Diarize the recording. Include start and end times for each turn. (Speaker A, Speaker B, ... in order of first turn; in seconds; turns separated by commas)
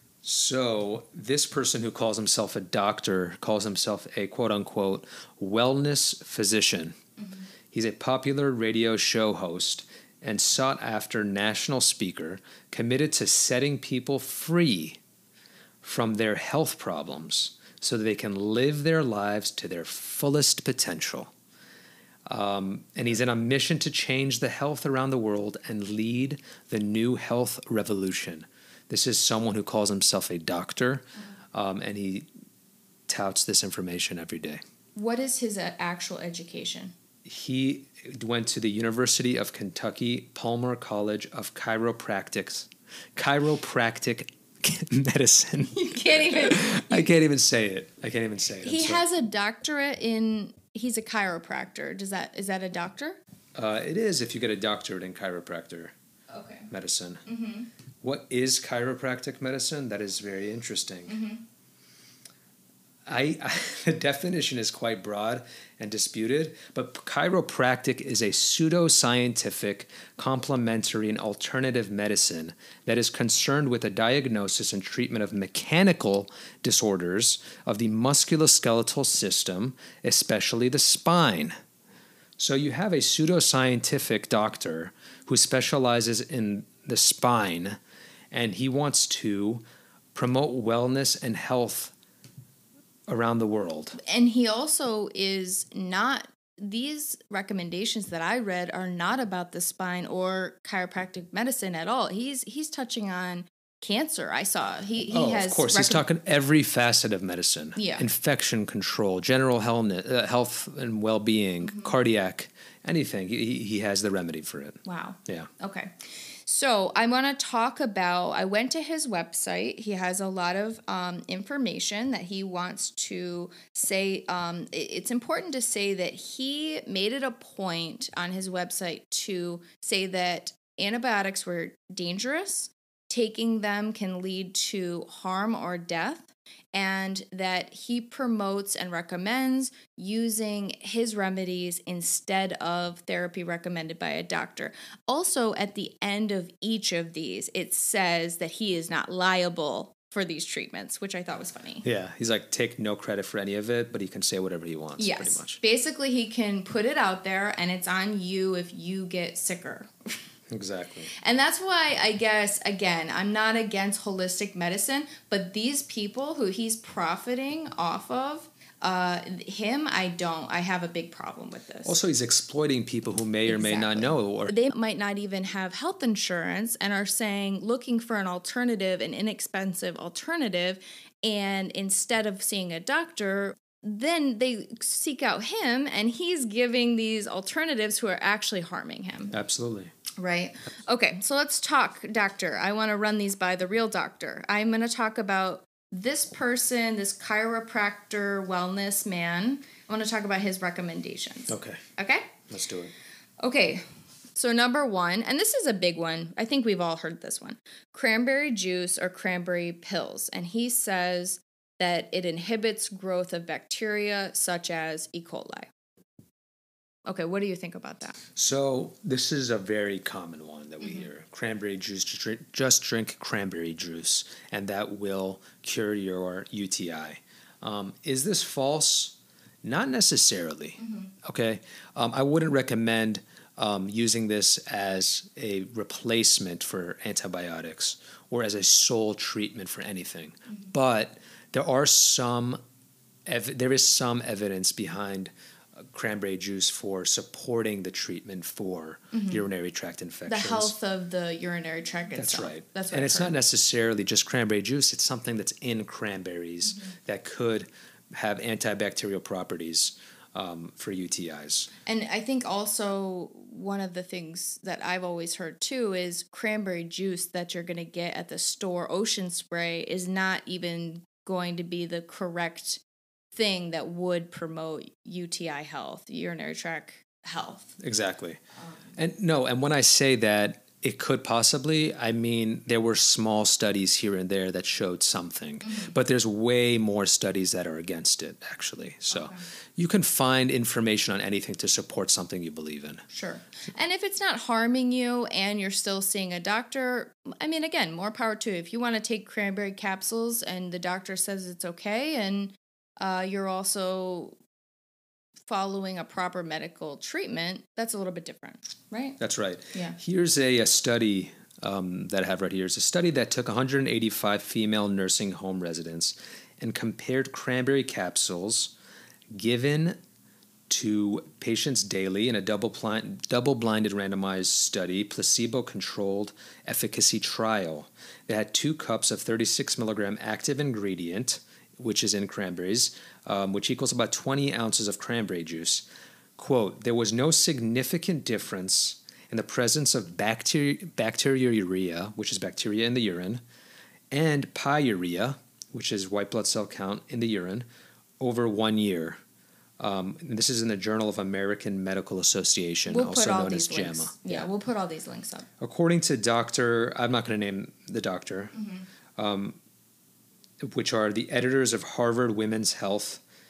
Speaker A: 0.2-7.0, Speaker A: 7.7-15.0, Speaker A: 15.8-21.3, Speaker A: 22.2-32.3, Speaker A: 33.1-34.6, Speaker B: 35.0-36.9, Speaker A: 37.2-49.0, Speaker B: 45.7-47.1, Speaker B: 48.6-53.2, Speaker A: 53.5-55.9, Speaker B: 56.3-56.7, Speaker A: 56.7-57.2, Speaker B: 57.3-57.7, Speaker A: 58.0-61.2, Speaker B: 61.1-61.4, Speaker A: 63.0-81.5, Speaker A: 82.4-87.8, Speaker A: 88.3-89.6, Speaker A: 90.1-91.9, Speaker A: 93.1-94.0, Speaker B: 94.0-106.0, Speaker A: 105.1-115.5, Speaker B: 107.8-108.0, Speaker B: 111.6-111.9, Speaker B: 114.8-115.9, Speaker B: 116.5-151.8, Speaker A: 151.8-155.6, Speaker B: 155.0-160.2, Speaker A: 160.5-161.1, Speaker B: 161.2-171.9, Speaker A: 171.8-174.6, Speaker B: 173.5-189.3, Speaker A: 189.3-189.9, Speaker B: 190.2-202.3, Speaker A: 201.5-201.8, Speaker A: 202.5-202.9, Speaker B: 203.4-203.8, Speaker B: 204.3-215.7, Speaker B: 217.1-218.2, Speaker A: 218.3-242.6, Speaker B: 220.8-221.1, Speaker A: 243.2-250.7, Speaker B: 249.1-249.4, Speaker B: 250.3-253.3, Speaker A: 252.2-261.7, Speaker B: 261.8-272.8, Speaker B: 273.3-277.8, Speaker A: 277.8-278.4, Speaker A: 278.9-293.0, Speaker B: 285.6-285.9, Speaker B: 289.1-289.4, Speaker B: 293.1-304.4, Speaker B: 305.5-309.2, Speaker A: 309.2-318.7, Speaker A: 319.3-320.0, Speaker A: 320.7-335.8, Speaker A: 336.4-343.4, Speaker A: 344.1-347.6, Speaker A: 348.2-349.2, Speaker A: 349.8-354.5, Speaker B: 352.9-355.5, Speaker A: 355.6-358.5, Speaker A: 359.1-359.6, Speaker A: 360.6-363.2